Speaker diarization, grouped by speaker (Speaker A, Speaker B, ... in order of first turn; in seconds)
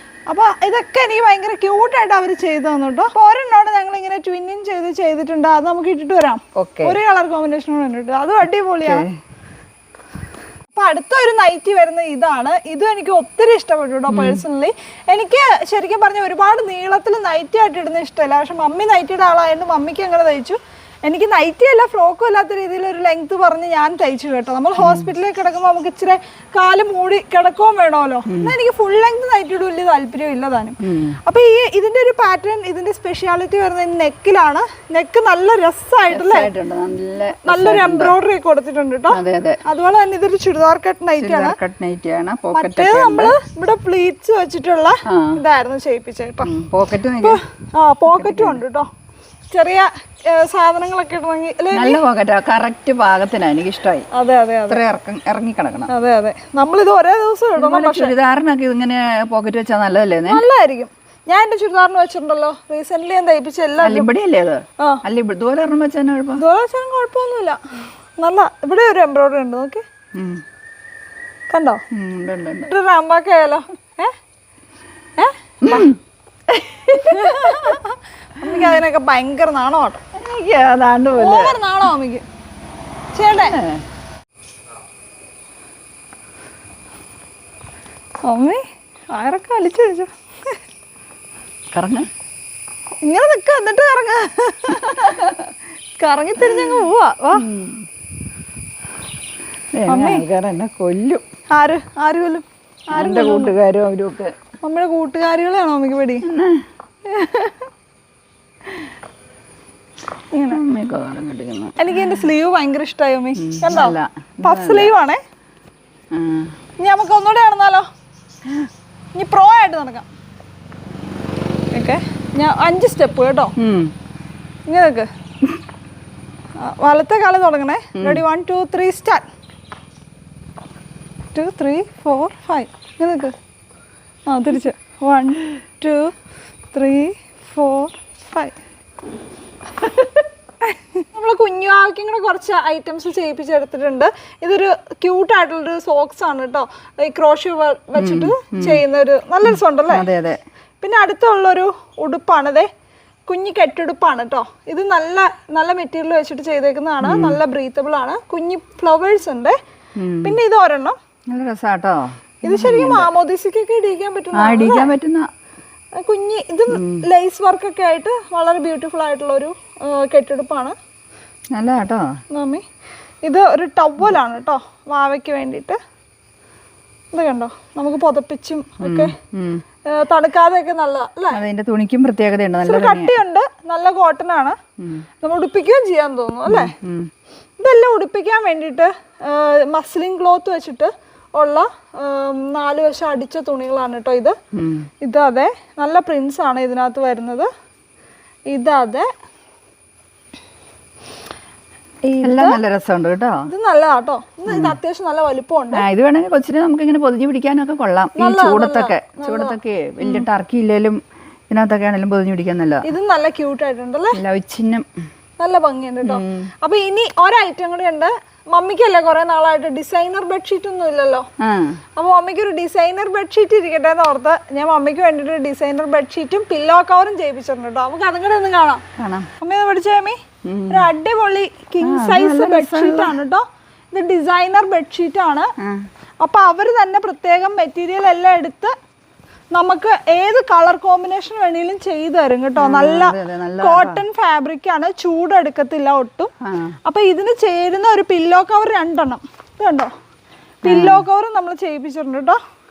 Speaker A: 0.3-9.0, 10.7-36.5, 37.4-41.6, 42.5-46.5, 47.2-48.9, 49.5-52.0, 54.1-54.8, 55.9-58.1, 60.3-64.1, 66.3-69.8, 71.5-71.8, 72.6-74.1, 75.2-75.9, 77.0-80.0, 81.1-82.2, 83.1-83.6, 88.2-90.6, 93.0-95.3, 96.0-97.5, 99.9-100.2, 101.5-103.6, 104.6-106.2, 107.0-107.7, 110.3-110.6, 111.8-115.2, 116.8-117.9, 119.2-120.1, 121.7-123.5, 124.7-125.1, 126.6-129.2, 131.3-133.3, 134.3-136.1, 136.7-138.6, 140.6-150.1, 150.8-152.7, 153.3-159.6, 160.2-161.0, 162.4-164.9, 165.9-170.8, 172.3-172.6, 173.2-175.8, 177.1-179.1, 179.9-181.4, 182.6-184.6, 185.2-186.7, 187.6-194.4, 195.0-197.5, 198.5-199.1, 202.0-202.6, 203.5-205.8, 208.2-210.2, 212.8-214.2, 215.4-221.3, 221.9-228.8, 229.4-235.5, 236.2-238.7, 239.5-246.3, 246.8-249.9, 250.6-252.4
Speaker B: 6.5-7.0, 8.8-9.2, 14.1-14.4, 24.8-25.1, 28.3-28.6, 30.8-31.2, 36.1-38.2, 39.1-39.6, 41.2-43.4, 45.1-45.4, 46.4-47.4, 48.1-48.6, 51.7-54.1, 54.7-55.9, 57.5-60.4, 63.8-66.4, 70.1-70.4, 71.9-72.7, 75.6-77.8, 78.5-78.7, 80.1-81.6, 83.4-83.8, 91.7-92.1, 94.9-95.3, 96.4-96.8, 97.3-97.9, 99.7-101.2, 102.9-104.3, 106.2-106.6, 110.5-112.1, 113.3-114.9, 116.1-116.5, 123.6-123.9, 127.9-128.2, 147.9-148.8, 149.4-150.4, 157.0-157.4, 159.9-160.4, 161.3-163.1, 164.3-165.3, 166.7-167.0, 171.5-172.2, 178.8-179.6, 181.3-183.2, 184.8-185.1, 186.5-187.1, 194.5-194.9, 202.2-203.5, 204.5-204.8, 205.7-212.9, 214.1-214.9, 216.0-216.5, 221.4-221.8, 229.0-229.3, 230.4-230.9, 231.8-233.2, 235.6-235.8, 242.6-244.0, 246.4-246.8, 250.6-251.1